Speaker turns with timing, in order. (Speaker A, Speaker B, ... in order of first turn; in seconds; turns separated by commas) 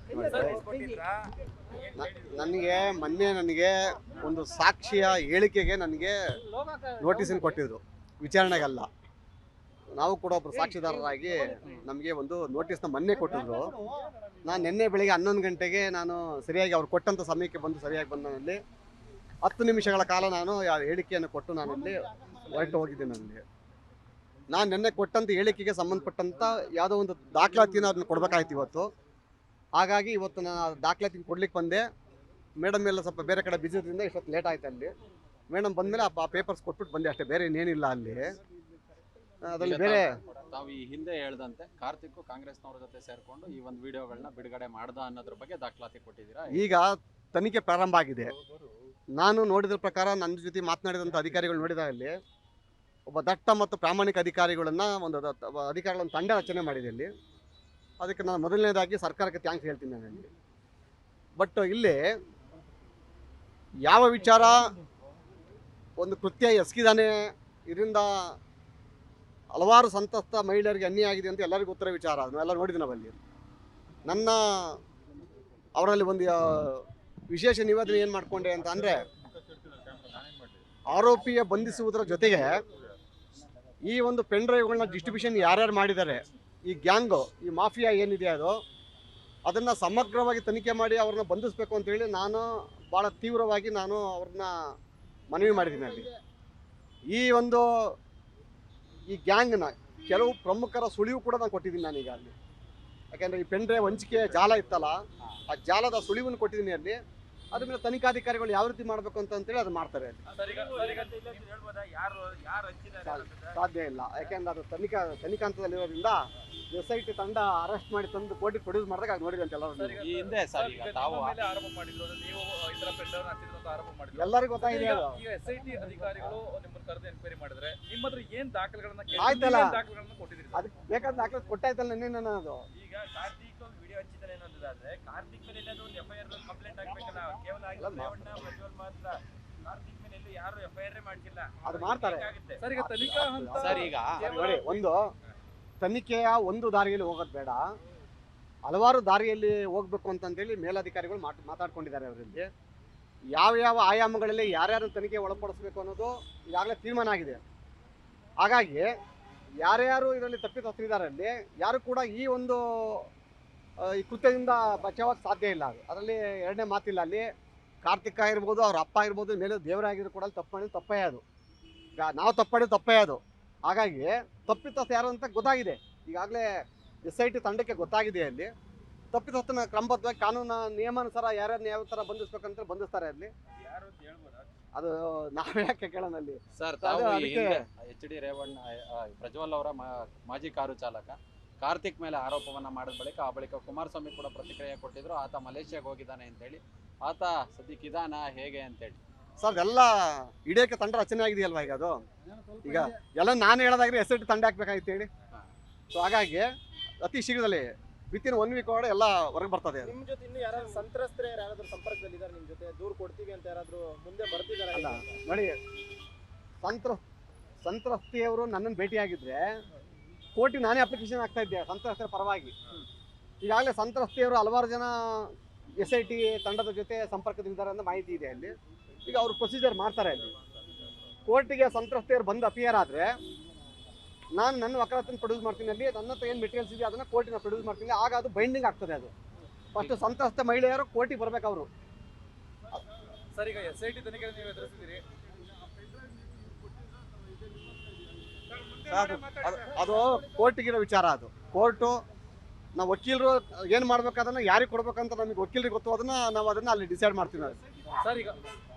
Speaker A: 0.1-0.7, Speaker B: 0.2-3.0, Speaker A: 2.0-6.2, Speaker C: 6.4-7.6, Speaker A: 7.0-8.9, Speaker A: 10.0-13.8, Speaker C: 10.8-11.8, Speaker C: 13.4-13.9, Speaker A: 14.4-18.6, Speaker A: 19.4-23.4, Speaker A: 24.5-28.9, Speaker A: 29.8-31.8, Speaker A: 32.6-34.9, Speaker A: 35.5-38.4, Speaker A: 39.4-40.1, Speaker D: 39.6-46.6, Speaker A: 46.5-48.3, Speaker A: 49.2-52.1, Speaker A: 53.1-57.1, Speaker A: 58.0-60.3, Speaker A: 61.4-62.0, Speaker A: 63.9-64.6, Speaker A: 66.0-68.4, Speaker A: 69.5-73.2, Speaker A: 74.1-74.8, Speaker A: 75.8-79.0, Speaker A: 80.9-82.6, Speaker A: 83.9-88.6, Speaker A: 89.5-94.5, Speaker A: 95.3-96.1, Speaker A: 97.1-97.9, Speaker A: 99.1-102.3, Speaker A: 103.1-105.0, Speaker A: 105.5-107.0, Speaker A: 107.5-110.2, Speaker E: 110.3-111.3, Speaker B: 110.4-113.6, Speaker A: 113.0-116.2, Speaker A: 116.7-120.0, Speaker E: 119.8-130.7, Speaker D: 120.0-121.4, Speaker A: 124.2-125.2, Speaker A: 129.2-129.8, Speaker A: 130.5-132.6, Speaker B: 132.7-142.7, Speaker A: 137.8-138.2, Speaker A: 141.7-145.0, Speaker E: 142.6-144.8, Speaker D: 143.6-144.2, Speaker A: 145.8-147.7, Speaker A: 148.7-152.5, Speaker A: 153.4-157.4, Speaker A: 158.4-158.9, Speaker A: 159.6-163.1, Speaker A: 163.8-167.3, Speaker A: 167.8-171.2, Speaker A: 172.0-176.5, Speaker A: 177.1-178.5, Speaker A: 179.1-183.3, Speaker B: 183.5-184.5, Speaker A: 184.8-187.6, Speaker D: 186.6-199.0, Speaker A: 199.4-202.0, Speaker C: 202.5-202.8, Speaker A: 202.6-205.1, Speaker A: 205.9-206.5, Speaker A: 207.0-209.9, Speaker C: 209.8-215.2, Speaker A: 214.7-215.6, Speaker A: 216.6-217.0, Speaker A: 217.6-219.6, Speaker A: 220.3-222.5, Speaker A: 223.4-228.5, Speaker A: 229.1-230.3, Speaker A: 231.3-233.1, Speaker A: 234.4-239.1, Speaker A: 239.8-241.7, Speaker E: 243.3-245.0, Speaker E: 248.5-249.8, Speaker A: 248.9-252.0, Speaker A: 252.8-257.6, Speaker E: 258.0-258.4